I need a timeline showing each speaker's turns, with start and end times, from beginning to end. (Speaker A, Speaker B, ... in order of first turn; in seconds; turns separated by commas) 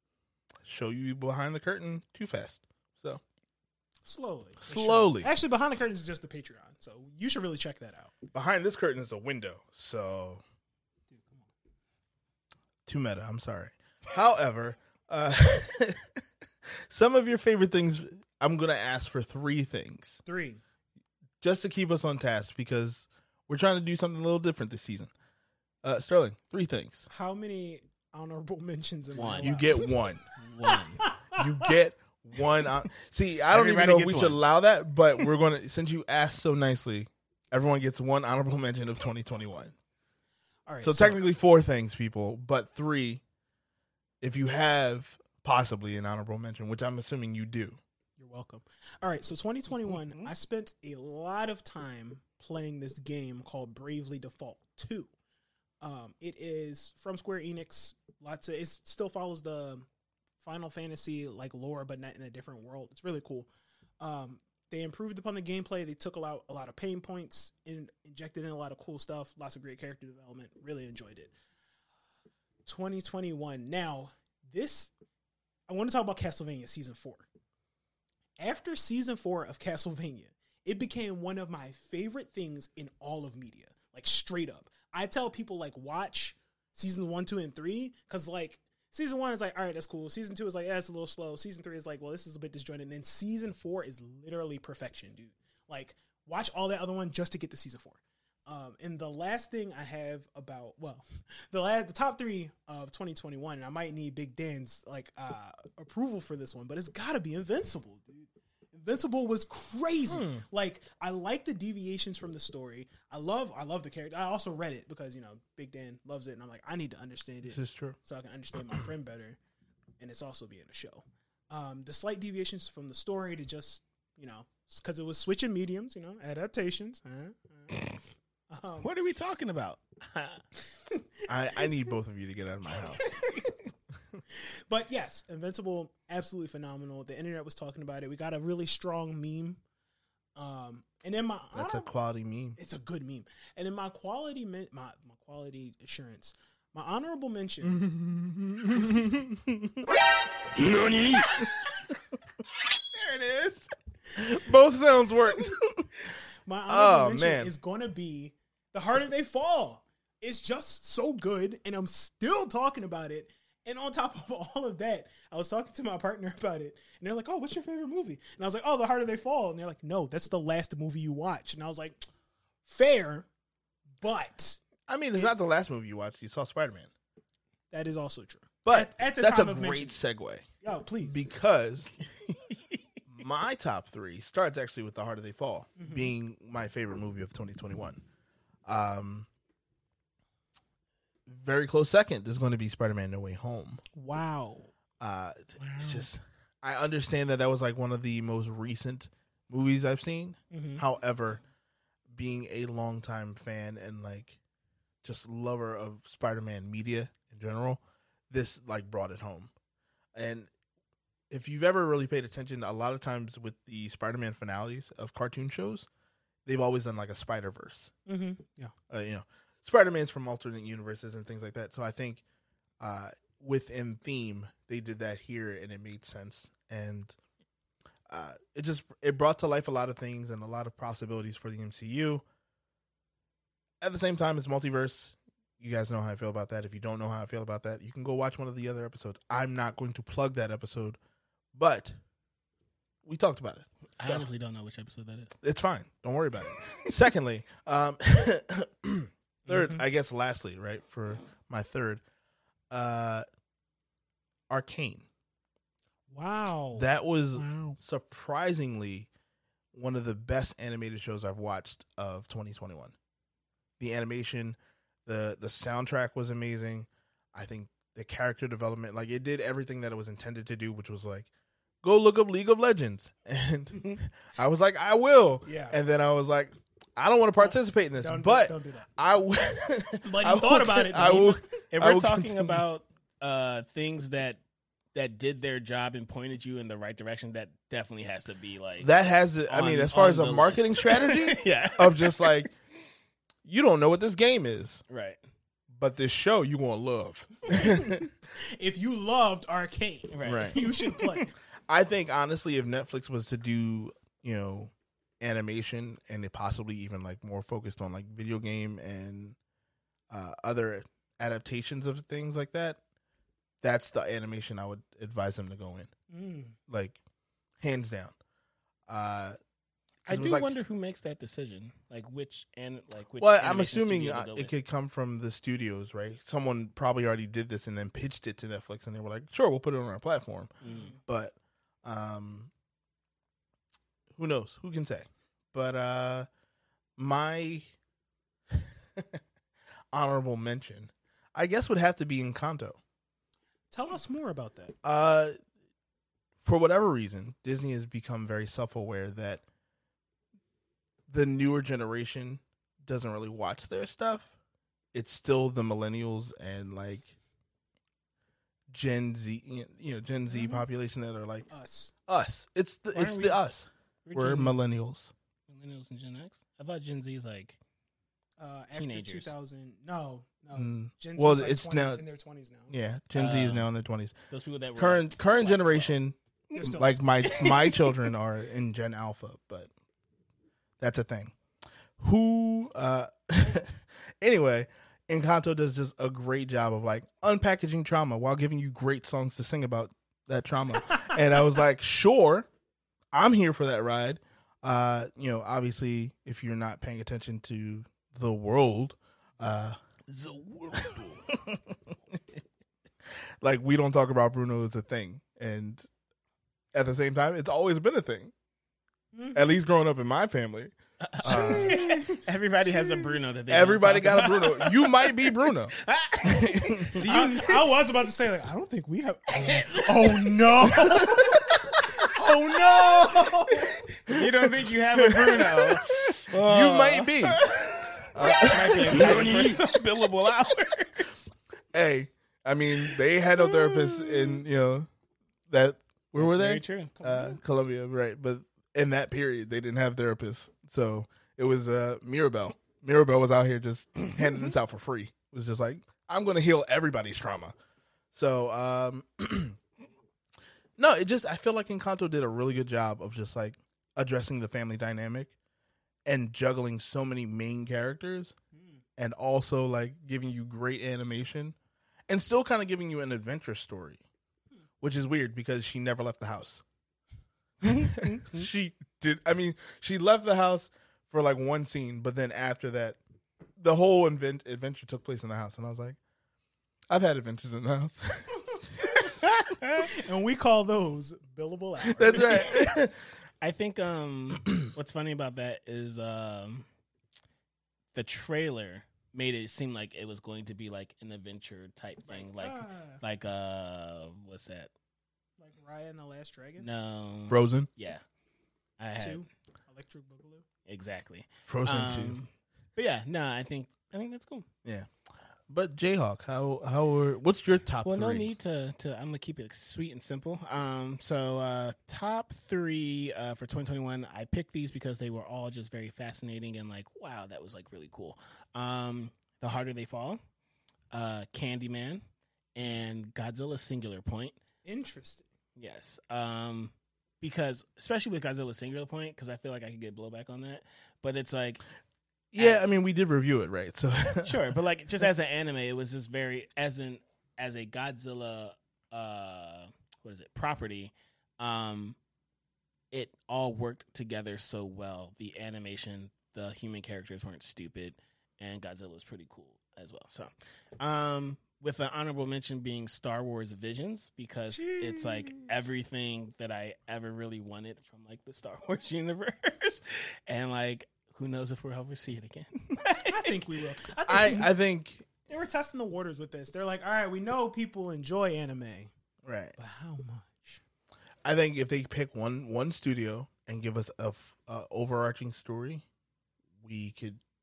Speaker A: 0.6-3.2, Speaker B: 4.0-8.1, Speaker A: 4.6-5.3, Speaker A: 8.3-10.4, Speaker B: 11.1-11.5, Speaker A: 12.9-16.1, Speaker A: 16.9-20.2, Speaker B: 20.2-20.6, Speaker A: 21.4-25.1, Speaker A: 25.8-27.1, Speaker B: 27.1-29.9, Speaker C: 29.1-29.8, Speaker A: 29.4-30.2, Speaker C: 30.4-31.1, Speaker B: 30.6-31.4, Speaker A: 31.3-39.7, Speaker C: 33.5-34.4, Speaker B: 40.7-41.2, Speaker A: 40.8-43.2, Speaker A: 44.2-47.8, Speaker B: 48.2-55.1, Speaker C: 49.9-50.3, Speaker B: 55.8-59.9, Speaker B: 60.4-63.5, Speaker B: 64.0-71.3, Speaker B: 72.7-74.9, Speaker B: 75.7-77.3, Speaker B: 78.4-119.4, Speaker A: 110.1-110.5, Speaker A: 117.5-118.0, Speaker B: 120.0-127.8, Speaker C: 127.7-128.0, Speaker B: 128.5-128.9, Speaker C: 128.8-130.4, Speaker A: 131.3-133.2, Speaker B: 131.6-131.9, Speaker B: 132.9-133.5, Speaker B: 134.3-139.6, Speaker B: 140.4-141.9, Speaker A: 141.5-142.6, Speaker B: 142.6-147.8, Speaker A: 147.6-149.9, Speaker C: 150.7-151.8, Speaker C: 152.7-153.7, Speaker A: 154.2-155.9, Speaker B: 156.5-172.1, Speaker A: 156.7-157.5, Speaker B: 172.7-173.3, Speaker B: 174.0-174.6, Speaker A: 174.9-176.9, Speaker B: 177.7-180.0, Speaker A: 178.6-180.5, Speaker B: 180.6-181.3, Speaker A: 181.0-181.9, Speaker C: 182.3-182.8, Speaker A: 183.1-188.0, Speaker B: 185.8-186.1, Speaker A: 188.7-189.3, Speaker A: 191.3-193.8, Speaker B: 193.9-194.7, Speaker A: 195.0-201.4, Speaker C: 195.6-196.1, Speaker B: 200.5-200.8, Speaker A: 202.1-204.4, Speaker A: 205.0-209.5, Speaker A: 210.2-210.5, Speaker A: 211.3-215.9, Speaker A: 216.5-217.9, Speaker B: 218.1-218.7, Speaker A: 218.9-222.2, Speaker A: 222.8-227.2, Speaker A: 228.1-232.2, Speaker A: 233.8-241.0, Speaker A: 241.6-242.0, Speaker A: 243.0-244.3, Speaker C: 244.0-245.3, Speaker A: 245.4-252.0, Speaker B: 249.5-249.8, Speaker A: 252.7-253.2, Speaker A: 254.5-255.1, Speaker B: 256.1-257.8, Speaker A: 256.8-259.1, Speaker A: 259.7-262.9, Speaker A: 263.8-271.3, Speaker A: 271.8-282.6, Speaker B: 275.5-275.8, Speaker B: 277.4-278.9, Speaker B: 280.0-281.4, Speaker C: 281.7-284.4, Speaker C: 284.9-288.9, Speaker A: 288.8-292.5, Speaker C: 289.5-292.5, Speaker A: 293.4-294.8, Speaker C: 294.9-295.2, Speaker A: 295.7-298.1, Speaker B: 297.5-301.3, Speaker C: 300.1-301.2, Speaker A: 300.2-300.6, Speaker A: 301.7-309.4, Speaker A: 310.1-312.8, Speaker A: 313.6-315.9, Speaker B: 316.1-316.6, Speaker A: 316.7-317.0, Speaker A: 317.6-318.1, Speaker A: 318.9-319.4, Speaker C: 320.1-324.5, Speaker A: 320.1-320.5, Speaker A: 323.2-332.5, Speaker C: 330.6-330.9, Speaker B: 330.6-331.0, Speaker A: 334.1-336.3, Speaker A: 337.0-337.7, Speaker A: 338.5-339.2, Speaker A: 339.9-342.8, Speaker B: 343.7-344.8, Speaker A: 344.8-345.4, Speaker A: 346.4-349.4, Speaker A: 351.1-354.3, Speaker A: 354.9-357.1, Speaker A: 358.7-361.5, Speaker B: 360.3-360.6, Speaker B: 361.5-361.9, Speaker A: 362.1-365.1, Speaker C: 362.9-363.4, Speaker C: 364.1-364.6, Speaker C: 365.5-367.6, Speaker B: 368.4-372.7, Speaker C: 368.8-369.3, Speaker A: 370.6-372.0, Speaker A: 372.7-374.2, Speaker C: 373.1-373.7, Speaker C: 374.3-375.9, Speaker A: 374.8-379.7, Speaker B: 376.5-377.0, Speaker C: 377.2-378.1, Speaker A: 380.8-381.4, Speaker A: 382.0-392.5, Speaker A: 393.1-402.2, Speaker A: 403.4-405.9, Speaker A: 406.7-408.3, Speaker B: 409.1-409.4, Speaker A: 409.3-412.2, Speaker C: 411.0-417.7, Speaker B: 411.3-412.2, Speaker A: 413.5-417.1, Speaker B: 417.0-423.8, Speaker C: 419.4-421.8, Speaker C: 422.9-431.2, Speaker A: 424.1-427.5, Speaker A: 428.1-429.6, Speaker A: 431.7-434.9, Speaker C: 432.9-434.4, Speaker A: 435.5-447.5, Speaker C: 436.2-436.9, Speaker B: 436.9-437.4, Speaker A: 448.1-449.6, Speaker A: 450.8-455.3, Speaker A: 456.1-458.4, Speaker A: 459.0-461.6, Speaker A: 462.1-464.0, Speaker A: 464.8-466.6, Speaker C: 467.6-468.5, Speaker A: 467.6-473.0, Speaker A: 473.6-476.0, Speaker A: 476.9-479.2, Speaker C: 479.0-479.9, Speaker B: 479.8-482.6, Speaker A: 481.9-482.9, Speaker C: 483.4-486.7, Speaker C: 487.9-494.7, Speaker B: 492.1-493.0, Speaker B: 495.4-496.7, Speaker C: 496.6-498.0, Speaker A: 497.3-497.7, Speaker C: 498.8-499.2, Speaker B: 499.0-500.4, Speaker C: 500.7-504.5, Speaker A: 501.5-502.2, Speaker A: 505.5-508.3, Speaker C: 507.8-520.2, Speaker C: 520.9-522.0, Speaker C: 522.5-524.4, Speaker B: 524.6-525.3, Speaker C: 525.6-531.6, Speaker A: 532.3-534.5, Speaker C: 532.4-532.7, Speaker C: 534.2-542.0, Speaker C: 542.9-563.5, Speaker B: 554.5-555.5, Speaker B: 563.0-564.5, Speaker A: 564.1-565.1, Speaker B: 565.3-568.9, Speaker A: 569.2-569.5, Speaker B: 569.6-570.6, Speaker A: 571.2-575.9, Speaker A: 576.6-577.2